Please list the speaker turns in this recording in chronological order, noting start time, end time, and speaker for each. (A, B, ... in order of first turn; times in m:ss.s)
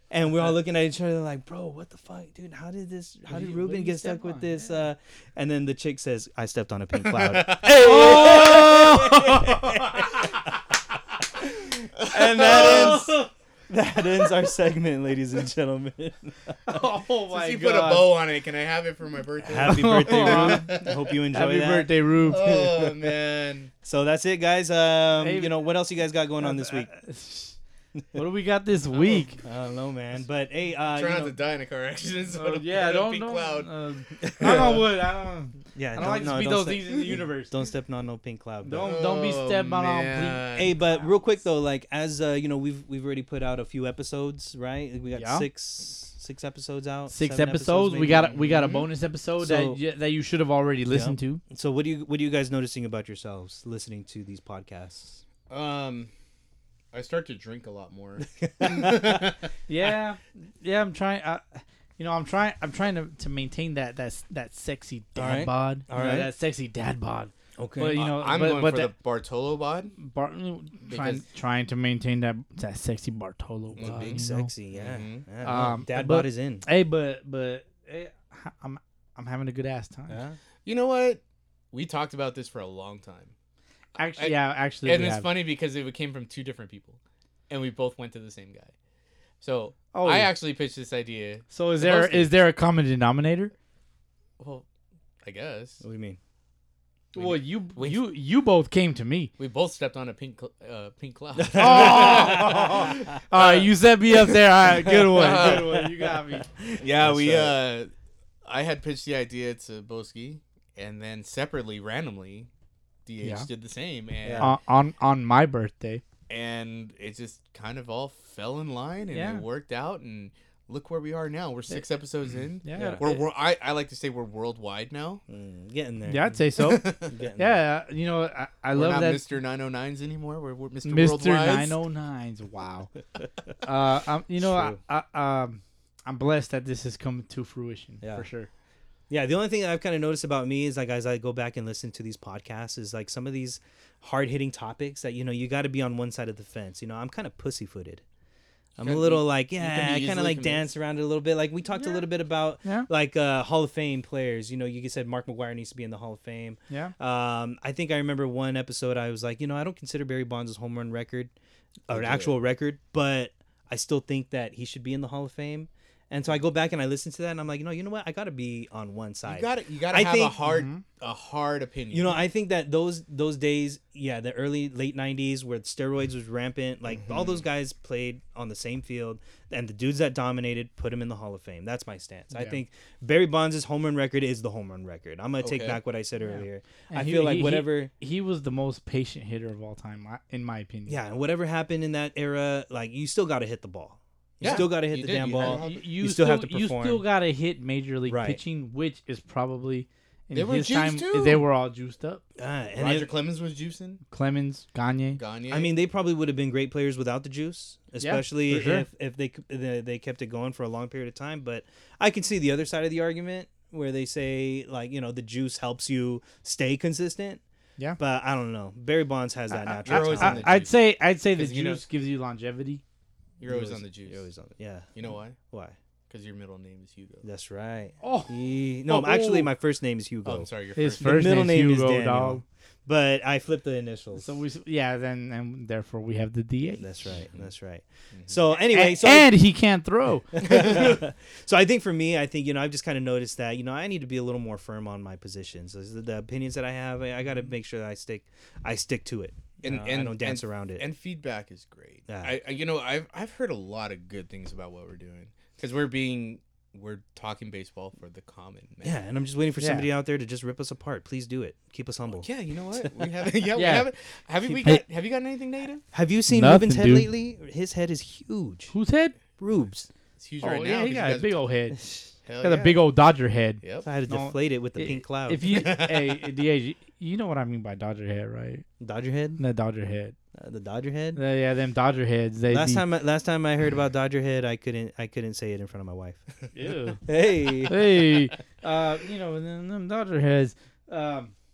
0:00.1-0:10.4 A
0:03.3-0:04.8 B
0:07.0-0:08.7 C
0:07.6-0:10.2 B
0:11.5-0:13.1 A
0:12.0-0:13.1 C
0:12.4-0:13.3 B
0:13.7-0:16.8 A
0:16.6-0:18.1 B
0:17.3-0:21.0 C
0:19.5-0:22.8 A
0:19.6-0:22.7 B
0:22.2-0:23.7 C
0:23.8-0:26.9 A
0:25.2-0:25.6 B
0:26.4-0:27.6 B
0:28.1-0:29.4 B
0:29.4-0:31.4 A
0:30.9-0:33.7 C
0:32.3-0:37.5 B
0:34.2-0:34.8 A
0:34.4-0:34.8 C
0:35.7-0:38.9 A
0:38.6-0:41.1 B
0:38.8-0:40.8 C
0:40.6-0:48.6 A
0:45.1-0:45.4 B
0:47.1-0:51.4 B
0:48.4-0:48.8 C
0:49.4-0:49.8 A
0:50.9-0:55.2 A
0:55.5-0:56.1 C
0:56.9-0:59.5 C
0:58.2-0:59.2 A
0:59.7-1:08.9 B
1:05.2-1:06.3 A
1:07.6-1:08.0 A
1:07.9-1:09.9 C
1:10.0-1:14.5 B
1:10.9-1:11.2 C
1:13.7-1:14.2 C
1:13.8-1:16.7 A
1:14.7-1:15.7 C
1:15.4-1:20.2 B
1:20.1-1:20.4 A
1:20.6-1:21.2 C
1:21.7-1:23.3 C
1:24.0-1:25.3 B
1:24.2-1:28.7 C
1:29.4-1:32.3 C
1:29.9-1:30.3 B
1:31.5-1:33.5 B
1:34.4-1:34.6 C
1:35.2-1:35.8 C
1:35.8-1:36.2 A
1:37.1-1:38.1 C
1:37.1-1:39.3 B
1:39.4-1:45.9 C
1:41.4-1:42.9 A
1:41.6-1:46.5 B
1:44.8-1:47.6 A
1:46.8-1:47.9 C
1:48.4-1:52.5 C
1:53.0-1:54.5 C
1:53.2-1:53.5 B
1:54.2-1:54.5 A
1:54.4-1:56.0 B
1:56.3-2:05.2 C
1:59.1-1:59.4 B
2:02.6-2:03.2 B
2:02.7-2:03.1 A
2:05.3-2:06.4 A
2:06.1-2:09.2 B
2:06.6-2:07.1 C
2:07.0-2:07.6 A
2:08.7-2:11.8 C
2:10.8-2:12.9 B
2:13.6-2:18.5 B
2:14.4-2:14.8 A
2:18.0-2:18.2 A
2:19.1-2:28.0 A
2:28.8-2:41.3 A
2:28.8-2:30.7 C
2:31.8-2:32.0 B
2:32.6-2:32.9 B
2:41.9-2:50.4 A
2:41.9-2:42.4 C
2:49.2-2:52.2 C
2:50.4-2:50.8 B
2:51.9-3:07.9 A
2:57.0-2:57.4 C
3:02.3-3:02.6 B
3:05.4-3:05.8 C
3:06.2-3:11.0 B
3:10.9-3:17.0 A
3:14.4-3:15.9 C
3:15.3-3:22.2 B
3:18.1-3:18.4 A
3:20.3-3:21.4 C
3:22.4-3:23.1 A
3:22.8-3:24.0 C
3:24.1-3:25.2 B
3:25.2-3:25.7 C
3:25.5-3:37.4 A
3:28.0-3:28.9 B
3:38.0-3:40.5 A
3:39.6-3:42.8 B
3:39.8-3:41.8 C
3:43.4-3:44.2 C
3:43.5-3:44.9 A
3:44.9-3:45.4 C
3:45.4-3:45.8 A
3:46.1-3:47.2 C
3:47.2-3:54.3 A
3:48.0-3:49.5 B
3:50.2-3:51.4 C
3:50.8-3:52.4 B
3:54.2-3:56.9 B
3:56.8-3:59.3 A
3:58.1-3:58.4 C
3:58.6-4:00.9 B
4:00.3-4:10.8 A
4:09.6-4:19.0 C
4:12.1-4:12.4 A
4:18.8-4:22.9 A
4:19.6-4:19.9 B
4:22.1-4:25.8 C
4:23.5-4:23.9 B
4:25.9-4:28.7 A
4:26.3-4:27.1 B
4:28.7-4:29.1 B
4:29.4-4:29.9 A
4:30.2-4:31.4 C
4:30.4-4:31.8 B
4:31.8-4:32.0 A
4:32.2-4:32.9 C
4:32.4-4:38.6 B
4:33.6-4:33.8 C
4:33.8-4:35.5 A
4:35.5-4:36.2 C
4:38.8-4:39.4 A
4:39.4-4:40.2 B
4:40.3-4:41.2 A
4:41.2-4:42.8 B
4:42.5-4:46.5 A
4:46.5-4:51.3 B
4:47.0-4:47.8 A